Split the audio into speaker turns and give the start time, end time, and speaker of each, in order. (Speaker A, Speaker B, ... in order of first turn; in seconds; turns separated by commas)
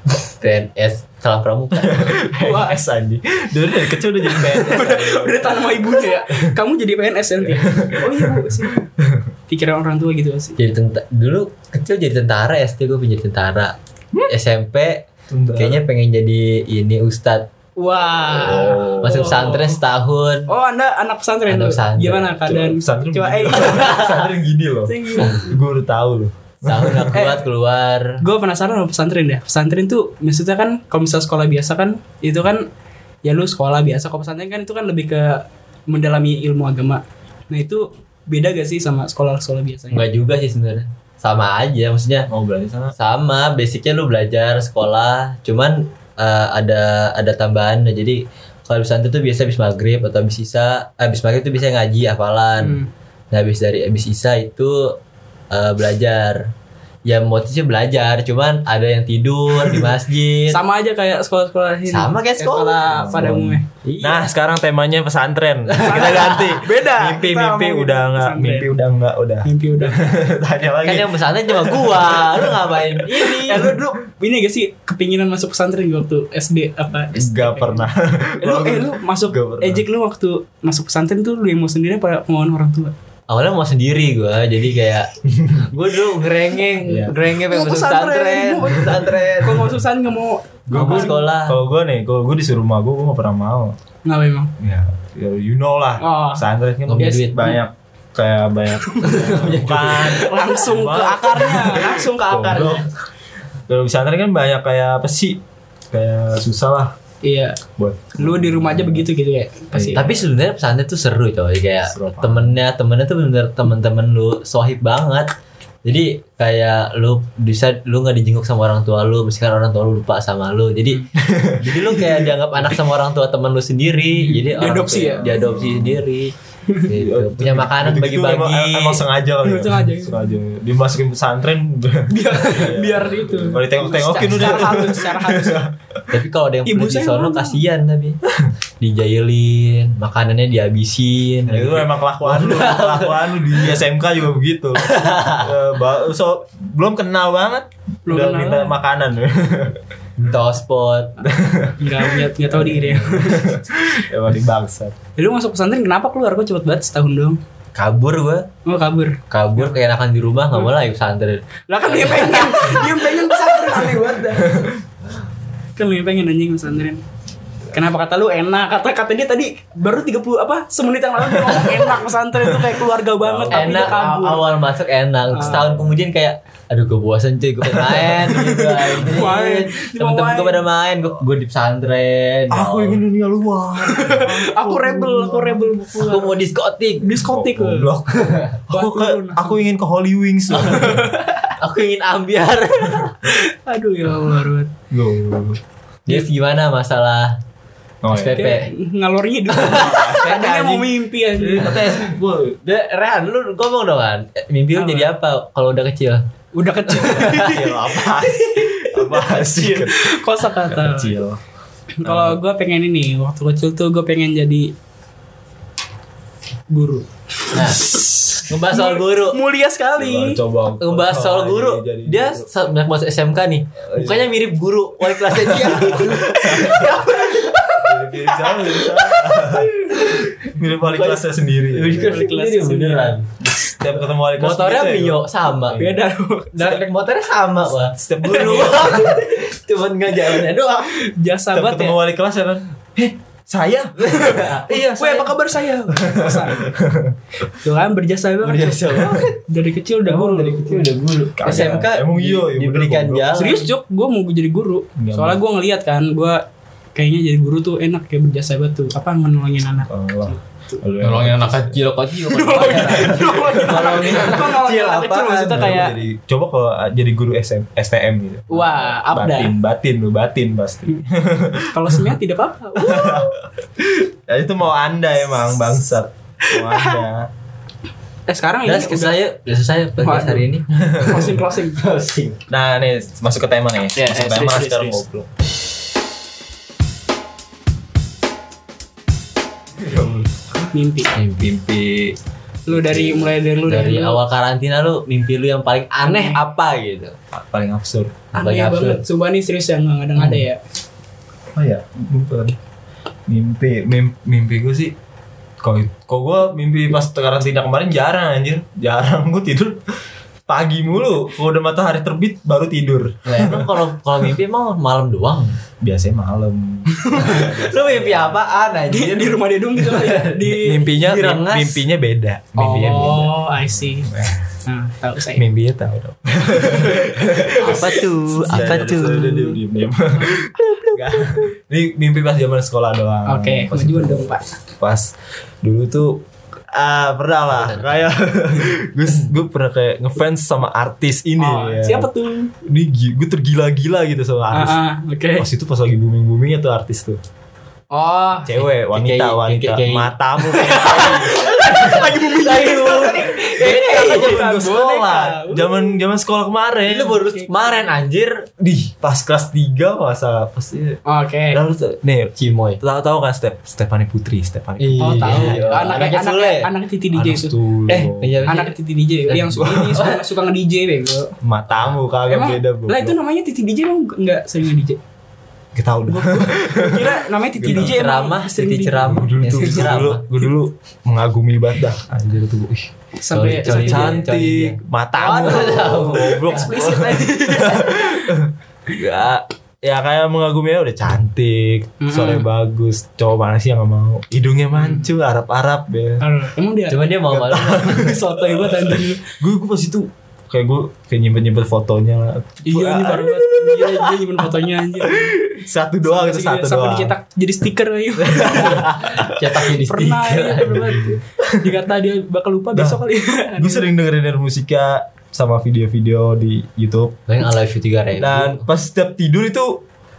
Speaker A: 0.2-2.2, Speaker B: 1.8-6.5, Speaker C: 2.3-2.8, Speaker C: 4.2-8.9, Speaker B: 7.4-9.3, Speaker C: 9.5-10.6, Speaker A: 10.6-17.5, Speaker B: 15.3-15.8, Speaker C: 17.8-19.7, Speaker B: 18.4-19.4, Speaker A: 18.6-20.5, Speaker C: 20.5-24.1, Speaker A: 21.5-22.4, Speaker B: 22.4-27.3, Speaker A: 23.6-24.3, Speaker C: 24.9-25.6, Speaker A: 26.6-28.2, Speaker C: 27.1-27.4, Speaker C: 28.2-32.7, Speaker C: 33.2-40.1, Speaker A: 39.9-42.3, Speaker B: 42.3-42.9, Speaker A: 43.0-52.8, Speaker C: 52.6-52.9, Speaker A: 53.3-55.0, Speaker A: 55.5-56.5, Speaker A: 57.1-60.6, Speaker C: 60.5-63.6, Speaker A: 61.9-62.8, Speaker B: 62.8-73.5, Speaker A: 63.8-64.3, Speaker A: 65.7-66.6, Speaker C: 65.8-68.7, Speaker C: 69.4-70.2, Speaker A: 70.8-73.8, Speaker C: 73.2-77.9, Speaker B: 77.1-79.8, Speaker C: 78.4-82.9, Speaker A: 83.3-89.7, Speaker B: 85.3-85.7, Speaker B: 86.8-87.2, Speaker C: 87.4-91.2, Speaker B: 90.7-93.8, Speaker A: 90.7-91.6, Speaker C: 94.0-94.5, Speaker B: 94.6-102.9, Speaker C: 96.0-97.6, Speaker A: 96.9-97.6, Speaker A: 99.0-100.2, Speaker C: 99.9-102.9, Speaker B: 103.7-107.0, Speaker C: 107.2-107.6, Speaker B: 107.8-109.1, Speaker C: 108.2-110.1, Speaker B: 109.7-110.2, Speaker A: 109.9-115.3, Speaker B: 111.9-112.6, Speaker A: 115.8-121.0, Speaker B: 121.2-122.4, Speaker A: 121.6-126.3, Speaker C: 124.4-125.4, Speaker B: 125.2-126.0, Speaker A: 126.8-129.0, Speaker B: 126.9-135.9, Speaker C: 129.4-130.3, Speaker C: 132.1-135.7, Speaker A: 136.1-138.2, Speaker C: 136.7-137.6, Speaker A: 138.8-143.8, Speaker B: 141.5-149.8, Speaker A: 144.8-145.6, Speaker C: 148.1-148.8, Speaker A: 150.2-151.2, Speaker B: 151.2-155.0, Speaker C: 151.8-153.6, Speaker C: 155.2-157.4, Speaker A: 157.8-158.5, Speaker C: 158.7-159.8, Speaker A: 159.3-163.0, Speaker C: 161.7-164.7, Speaker B: 164.4-164.8, Speaker C: 165.8-167.0, Speaker C: 167.7-174.6, Speaker B: 171.2-174.1, Speaker A: 173.5-183.0, Speaker B: 175.3-176.0, Speaker C: 175.3-175.7, Speaker B: 177.7-178.3, Speaker C: 178.3-180.7, Speaker B: 182.5-185.8, Speaker C: 183.8-186.3, Speaker A: 186.0-187.2, Speaker C: 187.0-187.9, Speaker B: 187.2-191.1, Speaker A: 188.1-188.6, Speaker C: 188.7-189.6, Speaker C: 190.5-191.6, Speaker A: 191.6-193.2, Speaker C: 193.2-194.7, Speaker B: 194.9-195.6, Speaker A: 196.1-197.4, Speaker B: 198.0-198.6, Speaker A: 198.1-198.7, Speaker C: 198.3-201.9, Speaker A: 199.5-200.8, Speaker B: 199.7-200.8, Speaker B: 201.4-202.6, Speaker A: 202.6-206.2, Speaker C: 204.7-205.1, Speaker C: 206.5-211.2, Speaker A: 206.9-207.7, Speaker B: 207.0-211.4, Speaker C: 212.0-214.7, Speaker B: 212.0-212.4, Speaker C: 216.7-220.4, Speaker A: 217.5-219.4, Speaker B: 220.0-222.5, Speaker A: 220.8-227.0, Speaker B: 223.9-224.3, Speaker C: 225.4-229.2, Speaker B: 225.6-226.9, Speaker B: 227.8-229.7, Speaker A: 229.4-235.8, Speaker B: 230.5-232.2, Speaker C: 232.0-233.1, Speaker B: 233.5-236.0, Speaker C: 235.7-236.8, Speaker A: 236.5-241.0, Speaker B: 238.0-239.2, Speaker C: 238.2-239.2, Speaker C: 240.9-242.0, Speaker B: 241.5-245.3, Speaker A: 244.0-245.0, Speaker C: 244.2-246.7, Speaker B: 245.9-247.2, Speaker C: 247.5-250.9, Speaker A: 248.4-249.4, Speaker A: 250.1-253.7, Speaker B: 251.4-253.3, Speaker C: 253.3-256.4, Speaker B: 255.0-255.4, Speaker C: 256.9-260.8, Speaker B: 259.9-261.8, Speaker A: 261.0-265.8, Speaker C: 262.2-266.0, Speaker B: 265.5-272.1, Speaker C: 268.5-269.5, Speaker C: 271.7-273.3, Speaker B: 272.8-277.3, Speaker C: 276.4-277.0, Speaker C: 278.3-279.2, Speaker A: 278.6-282.4, Speaker C: 280.0-281.9, Speaker B: 280.8-281.3, Speaker B: 282.5-285.3, Speaker C: 284.0-285.0, Speaker B: 289.8-290.7, Speaker C: 290.7-291.1, Speaker A: 291.1-291.5, Speaker B: 291.4-292.2, Speaker C: 292.7-294.2, Speaker B: 292.7-293.3, Speaker A: 293.6-297.2, Speaker C: 296.0-296.4, Speaker B: 297.3-298.2, Speaker C: 298.3-300.6, Speaker A: 298.4-299.0, Speaker B: 301.5-302.6, Speaker B: 303.3-304.9, Speaker B: 305.6-309.8, Speaker B: 310.5-313.8, Speaker A: 313.3-315.6, Speaker B: 315.8-318.4, Speaker C: 317.0-317.5, Speaker A: 317.2-321.8, Speaker C: 318.9-320.9, Speaker B: 320.4-324.5, Speaker C: 322.6-324.1, Speaker A: 322.8-323.2, Speaker C: 324.7-325.4, Speaker B: 325.4-342.1, Speaker C: 326.6-328.0, Speaker A: 327.5-329.6, Speaker C: 330.2-331.4, Speaker C: 333.3-334.5, Speaker A: 337.5-338.1, Speaker C: 341.4-342.5, Speaker B: 342.6-344.8, Speaker C: 344.5-345.5, Speaker B: 345.4-347.2, Speaker C: 347.9-348.6, Speaker B: 348.4-352.1, Speaker A: 348.9-354.4, Speaker C: 350.5-355.9, Speaker B: 353.4-357.2, Speaker A: 356.9-358.5, Speaker C: 357.3-357.9, Speaker B: 358.6-366.0, Speaker C: 361.1-361.6, Speaker A: 362.4-362.8, Speaker A: 364.8-366.7, Speaker C: 365.0-367.6, Speaker B: 367.1-368.4, Speaker A: 367.9-368.8, Speaker C: 368.5-371.3, Speaker A: 369.3-370.3, Speaker B: 369.6-370.0, Speaker B: 371.4-373.2, Speaker C: 372.3-375.0, Speaker B: 375.7-378.0, Speaker C: 376.1-380.0, Speaker A: 377.6-380.3, Speaker B: 379.0-382.9, Speaker C: 383.2-384.3, Speaker A: 383.3-387.0, Speaker B: 383.6-396.2, Speaker C: 385.2-388.4, Speaker C: 392.0-392.5, Speaker C: 394.8-395.1, Speaker C: 396.2-397.2, Speaker A: 396.9-398.2, Speaker B: 397.3-404.4, Speaker C: 397.8-399.3, Speaker C: 402.6-405.4, Speaker B: 405.0-407.1, Speaker C: 406.0-413.9, Speaker B: 408.2-409.4, Speaker A: 408.5-411.2, Speaker B: 411.2-411.7, Speaker B: 412.8-413.0, Speaker B: 413.6-417.2, Speaker A: 417.3-418.6, Speaker B: 418.2-419.8